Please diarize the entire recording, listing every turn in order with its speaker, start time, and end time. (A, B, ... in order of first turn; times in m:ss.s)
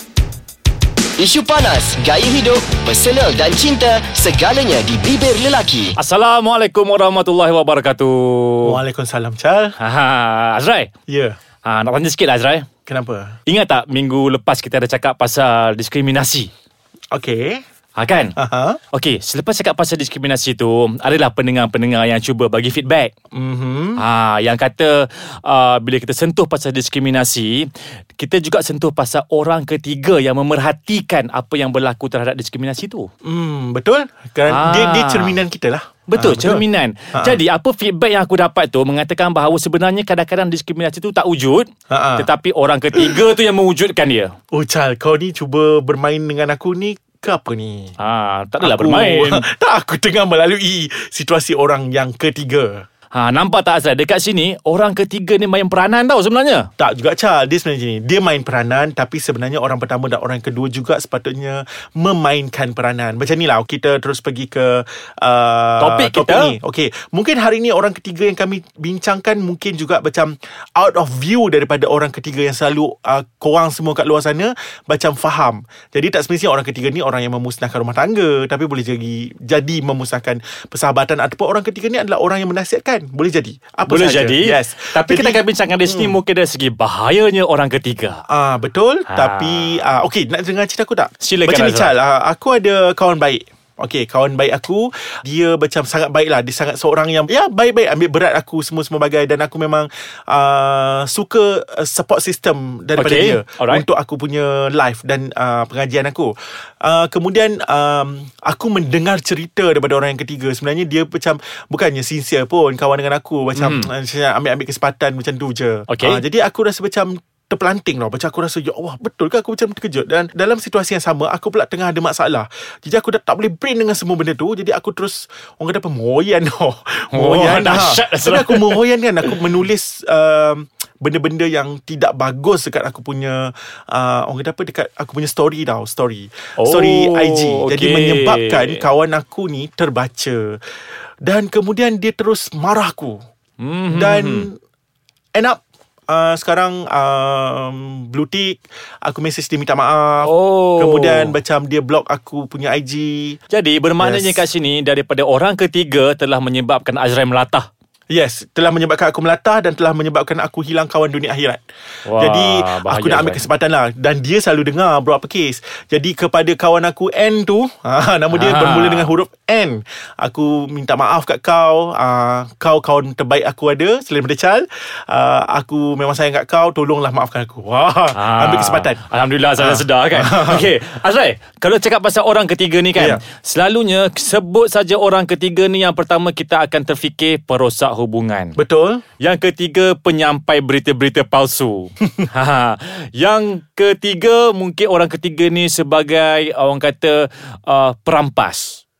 0:01.2-0:06.0 A
0:06.0-0:08.8 B
0:08.6-0:09.7 C
0:09.8-0:10.9 B
0:11.1-0:11.4 C
0:11.6-0:12.7 B
0:12.8-0:13.4 C
0:13.5-0:16.5 B
0:17.1-0:17.6 C
0:18.0-0:18.4 B
0:18.4-0:18.8 C
0:18.9-0:23.1 B
0:23.3-0:24.0 C
0:24.0-0:33.1 B
0:33.2-0:37.4 C
0:34.5-0:35.4 B
0:36.1-0:44.3 B
0:41.9-0:42.3 C
0:42.9-0:43.2 C
0:44.5-0:48.0 C
0:48.0-0:49.4 B
0:48.6-0:52.8 C
0:53.1-0:56.7 B
0:56.8-1:26.2 C
1:05.8-1:06.6 B
1:23.9-1:28.2 B
1:28.3-2:20.6 C
1:29.1-1:29.8 B
1:31.2-1:32.0 B
1:43.0-1:43.8 B
1:53.5-1:53.9 B
1:55.9-1:56.2 B
2:07.1-2:09.3 B
2:16.6-2:18.8 B
2:21.2-2:23.2 C
2:23.6-2:24.5 B
2:23.9-2:24.6 C
2:25.3-2:33.4 C
2:30.2-2:31.4 B
2:33.5-2:37.7 B
2:34.0-2:34.4 C
2:38.1-2:41.6 C
2:42.0-2:43.4 B
2:42.1-2:59.0 C
2:48.3-2:49.1 B
2:58.1-3:08.6 B
2:59.6-3:00.7 C
3:02.9-3:03.2 C
3:08.6-3:09.0 C
3:09.2-3:18.8 B